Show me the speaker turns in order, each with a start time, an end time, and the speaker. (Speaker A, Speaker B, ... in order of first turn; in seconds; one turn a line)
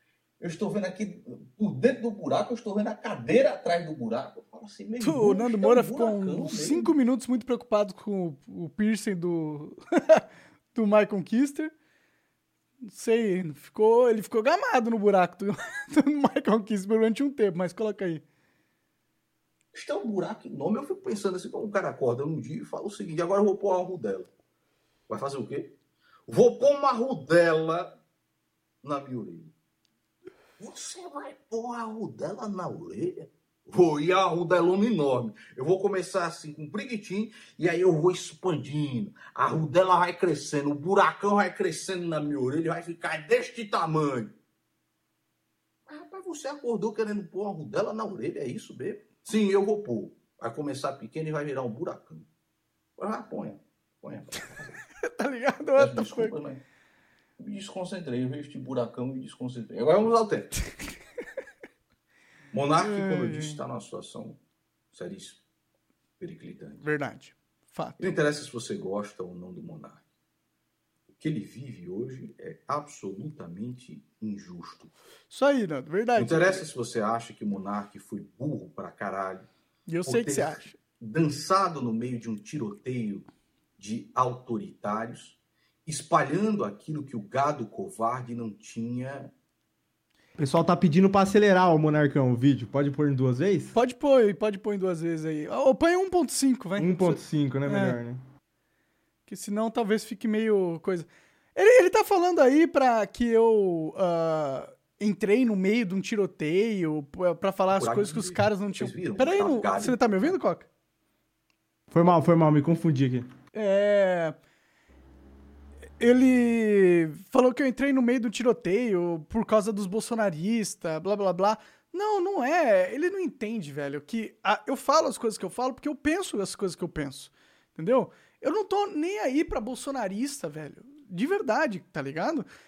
Speaker A: 0.4-7.0
Speaker B: 5.0-10.2
Speaker B: 10.7-11.7
Speaker B: 12.8-18.2
Speaker A: 19.7-24.3
Speaker A: 25.1-25.8
Speaker A: 26.3-27.9
Speaker A: 28.8-29.5
Speaker A: 30.6-44.3
Speaker A: 45.9-52.3
Speaker A: 53.0-54.8
Speaker B: 55.0-56.4
Speaker A: 55.8-56.6
Speaker A: 57.4-60.5
Speaker A: 62.5-64.4
Speaker B: 62.8-63.6
Speaker A: 64.9-65.4
Speaker A: 66.2-66.9
Speaker B: 66.8-68.2
Speaker A: 68.0-70.0
Speaker A: 71.2-74.9
Speaker B: 75.3-76.6
Speaker A: 76.2-79.5
Speaker B: 79.9-80.8
Speaker A: 80.0-89.3
Speaker C: 90.4-93.7
Speaker B: 93.7-98.0
Speaker C: 96.8-98.2
Speaker B: 99.3-110.7
Speaker A: 107.7-110.4
Speaker C: 111.9-113.3
Speaker B: 113.5-114.4
Speaker B: 116.0-132.5